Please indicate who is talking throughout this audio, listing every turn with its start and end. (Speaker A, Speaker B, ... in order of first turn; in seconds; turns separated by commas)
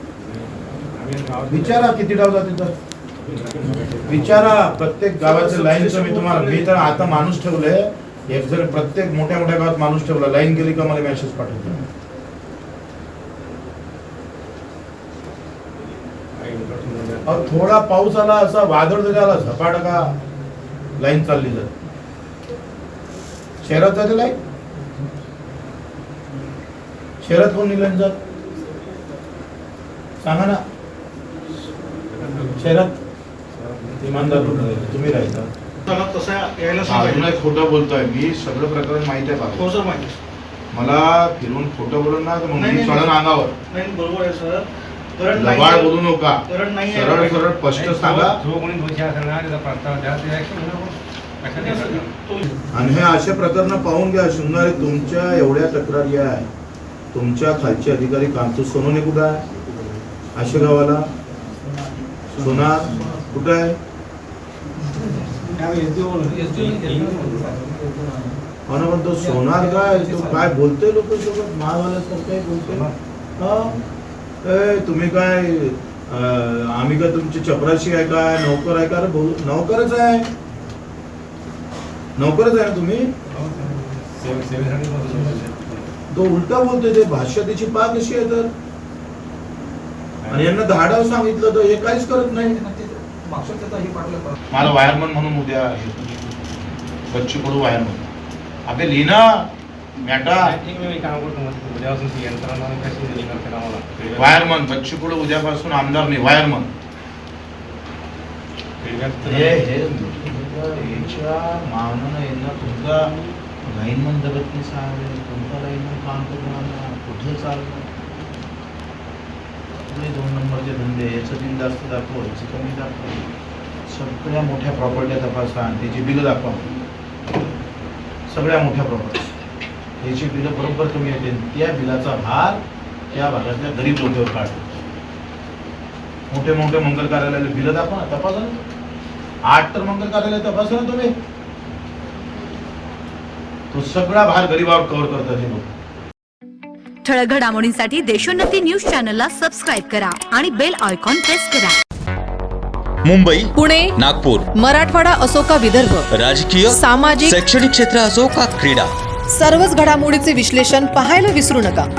Speaker A: 0.2-1.9, Speaker B: 1.5-2.7, Speaker A: 3.2-4.7, Speaker B: 4.0-11.8, Speaker C: 5.2-6.8, Speaker A: 16.4-17.5, Speaker B: 17.2-20.1, Speaker B: 21.0-21.7, Speaker B: 23.6-24.4, Speaker B: 27.2-28.1, Speaker B: 30.2-30.6, Speaker A: 32.1-32.6, Speaker B: 32.6-33.0, Speaker A: 33.5-34.4, Speaker B: 34.0-35.5, Speaker C: 35.9-37.3, Speaker B: 36.8-39.7, Speaker C: 39.5-40.1, Speaker B: 40.7-43.5, Speaker C: 42.5-43.1, Speaker C: 43.7-47.5, Speaker B: 45.3-48.4, Speaker A: 47.7-52.2, Speaker C: 51.5-52.7, Speaker B: 52.7-56.5, Speaker B: 57.1-59.4, Speaker B: 60.3-61.1, Speaker B: 62.4-63.8, Speaker A: 65.5-67.6, Speaker C: 66.5-68.3, Speaker B: 68.7-73.8, Speaker A: 72.7-72.9, Speaker B: 74.4-80.3, Speaker B: 82.2-83.1, Speaker A: 83.4-85.9, Speaker B: 86.1-88.5, Speaker A: 90.2-90.5, Speaker B: 90.3-92.7, Speaker C: 92.8-94.3, Speaker B: 94.5-96.2, Speaker B: 97.1-98.1, Speaker B: 98.7-100.5, Speaker A: 100.4-104.6, Speaker B: 104.1-106.7, Speaker A: 108.8-109.7, Speaker B: 109.2-113.1, Speaker B: 113.6-117.9, Speaker B: 119.9-123.2, Speaker B: 123.9-126.7, Speaker B: 128.3-129.2, Speaker B: 130.0-134.8, Speaker B: 136.3-138.6, Speaker B: 139.4-141.1, Speaker B: 143.7-145.7, Speaker D: 147.0-151.8, Speaker E: 153.0-154.4, Speaker F: 153.5-156.1, Speaker E: 156.1-156.7, Speaker F: 156.6-157.4, Speaker E: 157.3-158.9, Speaker F: 159.3-161.9